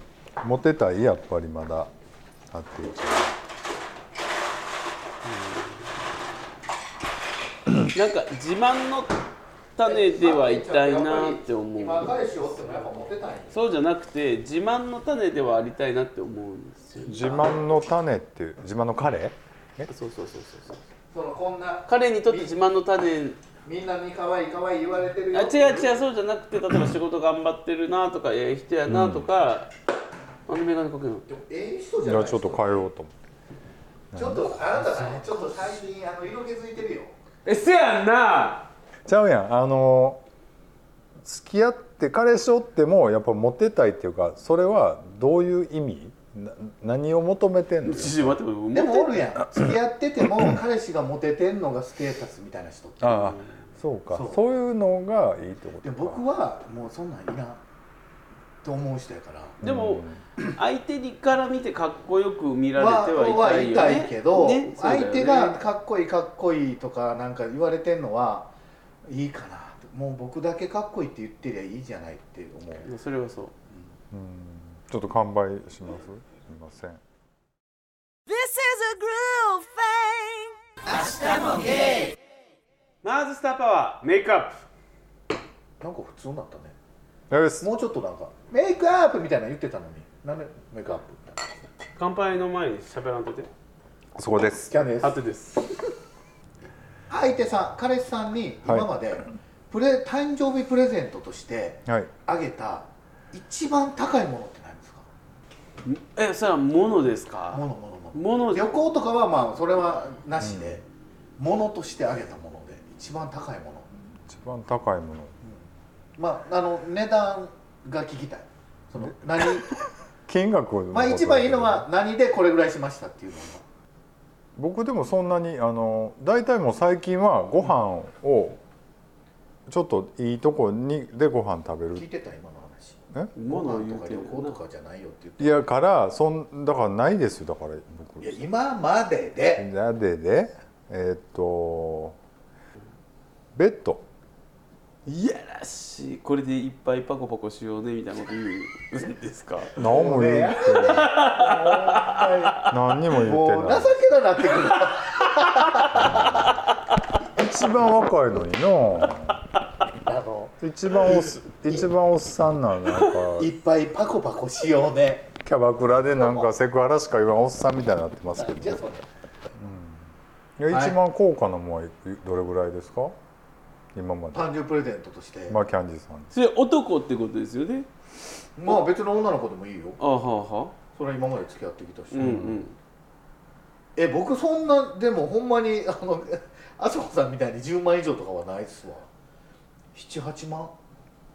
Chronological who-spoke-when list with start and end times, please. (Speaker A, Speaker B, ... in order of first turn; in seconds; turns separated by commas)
Speaker A: 0.4-1.9, Speaker A: 2.5-3.4, Speaker B: 5.2-6.1, Speaker B: 7.9-9.2, Speaker B: 9.8-12.3, Speaker C: 9.8-13.6, Speaker B: 13.5-17.6, Speaker A: 17.0-19.9, Speaker B: 19.9-20.8, Speaker C: 21.1-22.6, Speaker B: 21.9-23.4, Speaker C: 23.6-26.0, Speaker B: 25.3-29.7, Speaker A: 28.9-29.3, Speaker B: 30.5-31.3, Speaker C: 31.3-32.8, Speaker A: 32.0-33.1, Speaker A: 34.1-35.0, Speaker C: 34.1-37.1, Speaker B: 37.5-38.7, Speaker A: 39.1-40.2, Speaker A: 41.2-48.4, Speaker B: 47.8-49.2, Speaker C: 48.7-53.4, Speaker A: 53.0-56.2, Speaker C: 54.1-54.4, Speaker C: 55.8-57.6, Speaker C: 58.6-59.6, Speaker A: 59.6-60.2, Speaker B: 59.6-65.6, Speaker C: 62.8-68.5, Speaker C: 69.1-72.9, Speaker B: 72.8-73.5, Speaker A: 74.1-77.0, Speaker D: 78.3-80.5, Speaker B: 83.0-84.7, Speaker C: 85.8-86.8, Speaker A: 87.3-87.7, Speaker C: 87.6-91.4, Speaker B: 92.0-93.5, Speaker A: 94.2-94.8, Speaker C: 94.7-95.2, Speaker B: 95.0-95.8, Speaker C: 97.1-105.1, Speaker B: 105.8-108.7, Speaker C: 107.5-110.8, Speaker A: 110.4-110.8, Speaker C: 111.4-113.9, Speaker A: 114.3-115.3, Speaker C: 116.2-119.7, Speaker A: 120.3-121.9, Speaker C: 120.9-123.6, Speaker A: 124.6-128.6, Speaker A: 129.7-132.1, Speaker C: 131.9-135.6, Speaker B: 133.3-134.6, Speaker A: 135.4-138.4, Speaker C: 138.2-139.7, Speaker A: 139.6-142.2, Speaker A: 143.6-144.1, Speaker B: 145.1-149.8, Speaker A: 149.8-152.0, Speaker C: 149.8-156.6, Speaker B: 150.7-152.7, Speaker A: 152.6-154.0, Speaker B: 154.6-156.2, Speaker A: 155.9-156.6, Speaker A: 157.2-159.4, Speaker C: 160.0-160.6, Speaker A: 160.6-163.5, Speaker C: 163.3-165.3, Speaker A: 165.4-168.8, Speaker C: 166.1-166.5, Speaker C: 168.4-169.1, Speaker A: 169.6-170.0, Speaker A: 170.6-173.2, Speaker C: 170.7-171.0, Speaker A: 173.9-174.5, Speaker C: 174.3-175.6, Speaker A: 175.5-176.3, Speaker B: 176.3-177.9, Speaker C: 178.6-180.0, Speaker B: 180.0-180.8, Speaker C: 180.9-182.5, Speaker B: 182.1-182.8, Speaker A: 182.2-182.6, Speaker C: 184.0-189.1, Speaker C: 189.9-190.8